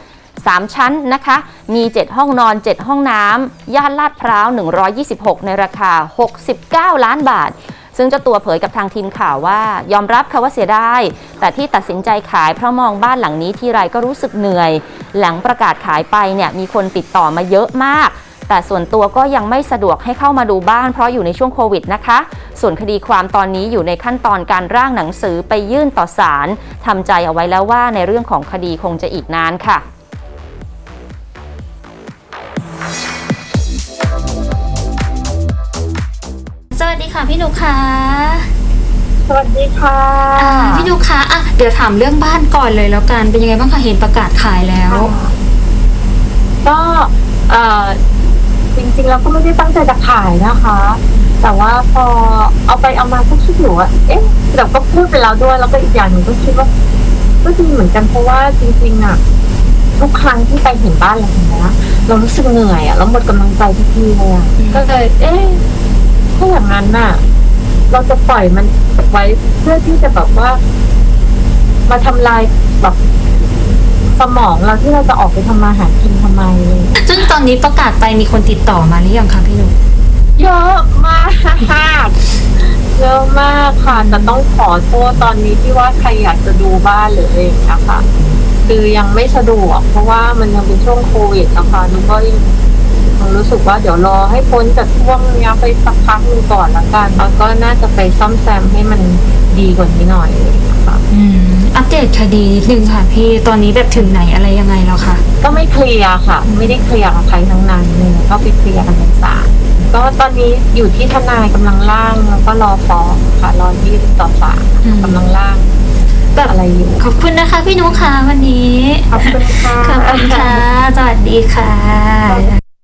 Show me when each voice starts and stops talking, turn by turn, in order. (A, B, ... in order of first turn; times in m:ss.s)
0:00.4-0:29.8 A
0:36.7-0:38.5 B
0:39.2-0:40.9 C
0:40.4-0:45.1 B
0:44.9-0:45.3 C
0:46.6-0:48.0 C
0:48.7-0:56.7 C
0:57.4-0:59.2 C
1:00.0-1:05.6 C
1:06.4-1:07.2 C
1:07.9-1:10.6 C
1:11.9-1:13.0 C
1:14.1-1:17.1 C
1:17.0-1:19.8 B
1:20.4-1:28.0 C
1:28.6-1:32.4 C
1:33.2-1:41.0 C
1:41.1-1:45.2 B
1:45.4-1:55.7 C
1:54.8-1:55.1 B
1:56.3-2:02.6 B
1:56.4-1:57.0 C
1:59.1-2:00.6 C